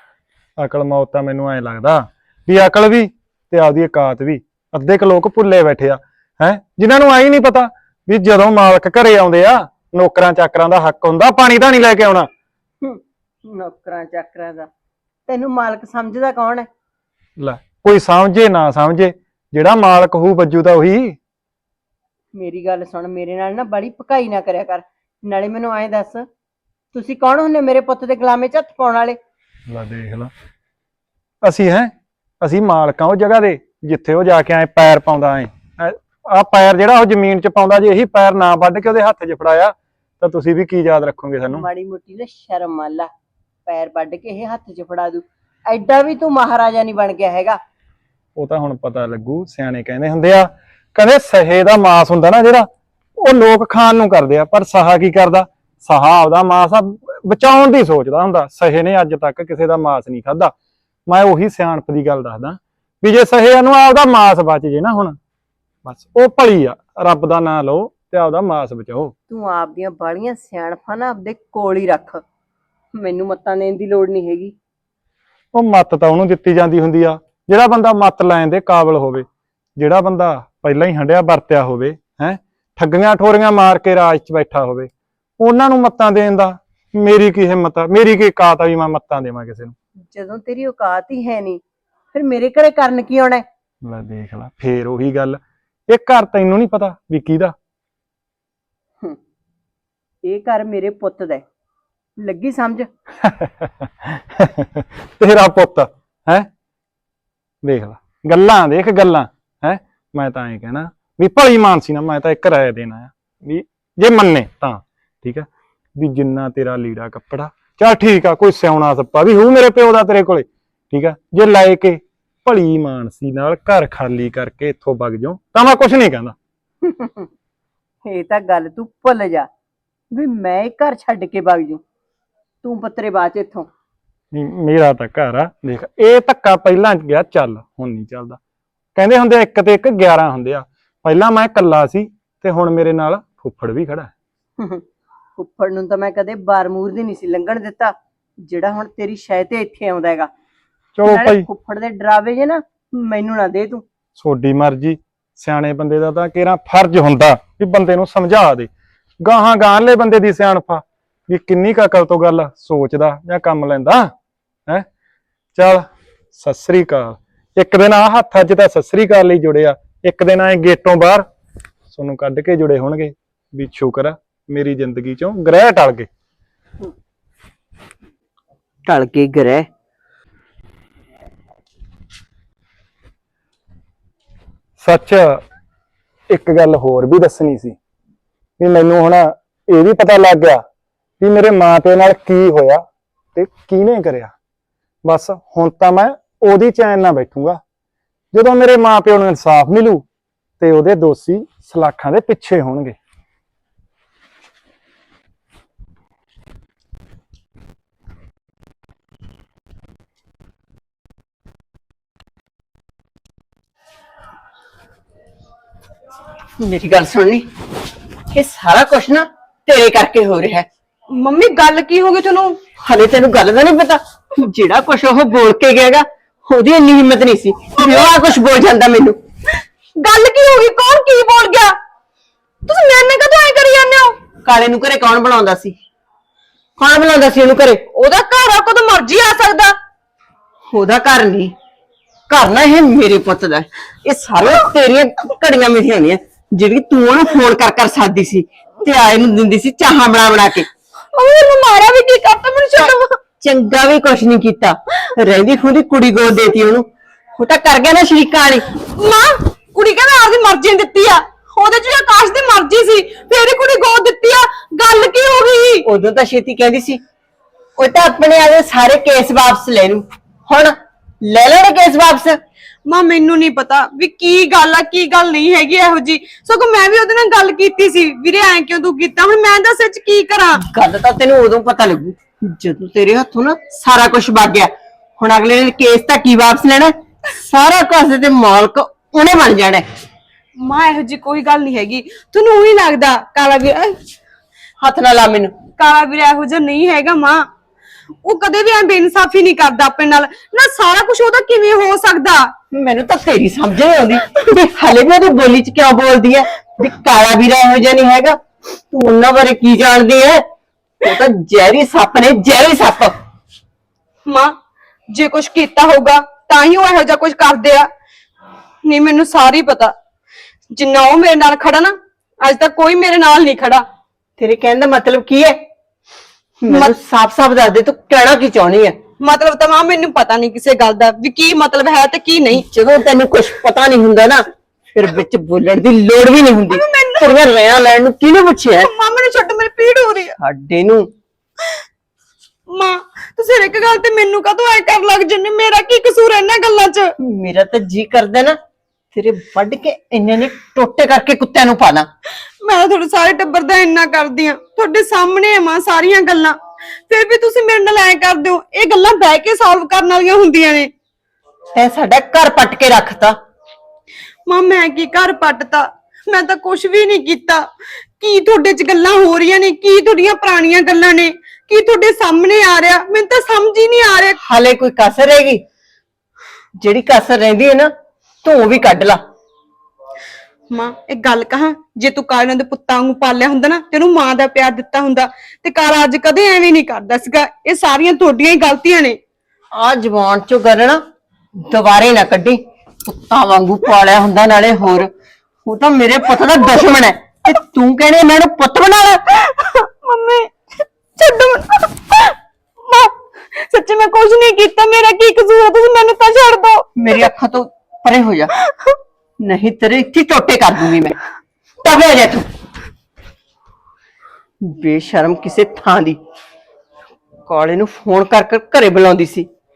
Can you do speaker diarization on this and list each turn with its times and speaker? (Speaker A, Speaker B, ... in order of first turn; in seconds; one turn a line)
Speaker A: 0.6-12.3
Speaker B: 12.8-14.7
Speaker B: 15.3-16.7
Speaker A: 17.4-21.2
Speaker B: 22.4-26.2
Speaker B: 26.9-29.2
Speaker A: 29.7-30.3
Speaker A: 31.4-41.6
Speaker B: 41.5-43.1
Speaker B: 43.7-47.6
Speaker A: 48.4-52.7
Speaker A: 53.2-60.5
Speaker A: 61.1-65.2
Speaker A: 65.8-69.1
Speaker B: 69.3-72.2
Speaker B: 73.0-74.5
Speaker A: 75.5-79.2
Speaker A: 79.8-89.7
Speaker B: 90.1-91.6
Speaker B: 92.1-93.4
Speaker A: 93.8-97.5
Speaker B: 100.2-101.4
Speaker B: 102.2-102.9
Speaker A: 103.2-106.5
Speaker A: 107.6-126.3
Speaker B: 126.8-127.3
Speaker B: 128.1-129.5
Speaker B: 130.1-131.8
Speaker B: 132.6-133.7
Speaker A: 134.3-138.4
Speaker A: 138.9-144.1
Speaker B: 145.4-147.9
Speaker B: 148.4-150.3
Speaker A: 151.0-151.4
Speaker B: 151.0-153.8
Speaker A: 154.2-158.7
Speaker A: 159.2-164.1
Speaker A: 165.6-171.2
Speaker A: 171.9-176.1
Speaker B: 178.9-179.7
Speaker A: 184.8-185.4
Speaker A: 186.3-187.8
Speaker A: 188.6-190.6
Speaker A: 191.2-192.8
Speaker A: 193.3-194.3
Speaker A: 195.0-197.6
Speaker A: 198.3-200.0
Speaker A: 200.6-202.9
Speaker B: 216.6-217.4
Speaker B: 218.3-220.7
Speaker C: 221.1-222.6
Speaker B: 222.8-229.2
Speaker C: 227.8-228.2
Speaker C: 229.6-231.8
Speaker C: 232.6-234.2
Speaker B: 234.4-235.7
Speaker B: 236.8-237.8
Speaker C: 237.9-239.7
Speaker B: 240.7-241.5
Speaker B: 242.3-250.7
Speaker C: 251.1-253.2
Speaker B: 253.4-256.9
Speaker B: 257.4-258.7
Speaker C: 258.8-265.8
Speaker B: 265.8-267.0
Speaker B: 267.8-272.4
Speaker C: 272.9-280.6
Speaker B: 280.7-289.8
Speaker C: 290.6-293.9
Speaker B: 294.8-295.5
Speaker C: 295.8-297.4
Speaker C: 298.2-302.5
Speaker B: 302.7-308.4
Speaker B: 308.9-310.4
Speaker B: 311.0-313.1
Speaker C: 314.2-314.5
Speaker C: 315.1-317.9
Speaker C: 318.8-319.9
Speaker C: 320.7-323.8
Speaker B: 324.4-325.6
Speaker B: 326.6-328.9
Speaker C: 329.2-332.6
Speaker B: 332.5-334.4
Speaker B: 334.9-338.9
Speaker C: 336.7-337.4
Speaker C: 338.8-340.3
Speaker B: 340.4-341.1
Speaker C: 342.7-347.1
Speaker B: 347.2-348.6
Speaker B: 349.1-352.1
Speaker C: 352.6-356.6
Speaker C: 357.1-360.9
Speaker B: 361.7-363.4
Speaker C: 364.5-367.7
Speaker C: 368.2-374.4
Speaker B: 374.4-375.6
Speaker B: 376.8-377.9
Speaker B: 378.4-379.2
Speaker C: 380.7-389.2
Speaker B: 389.7-391.0
Speaker B: 391.6-395.1
Speaker B: 395.6-399.3
Speaker C: 399.4-400.5
Speaker C: 401.1-407.3
Speaker B: 407.0-408.5
Speaker C: 408.6-408.9
Speaker B: 409.4-411.2
Speaker B: 411.8-412.4
Speaker B: 414.7-416.2
Speaker B: 417.5-419.5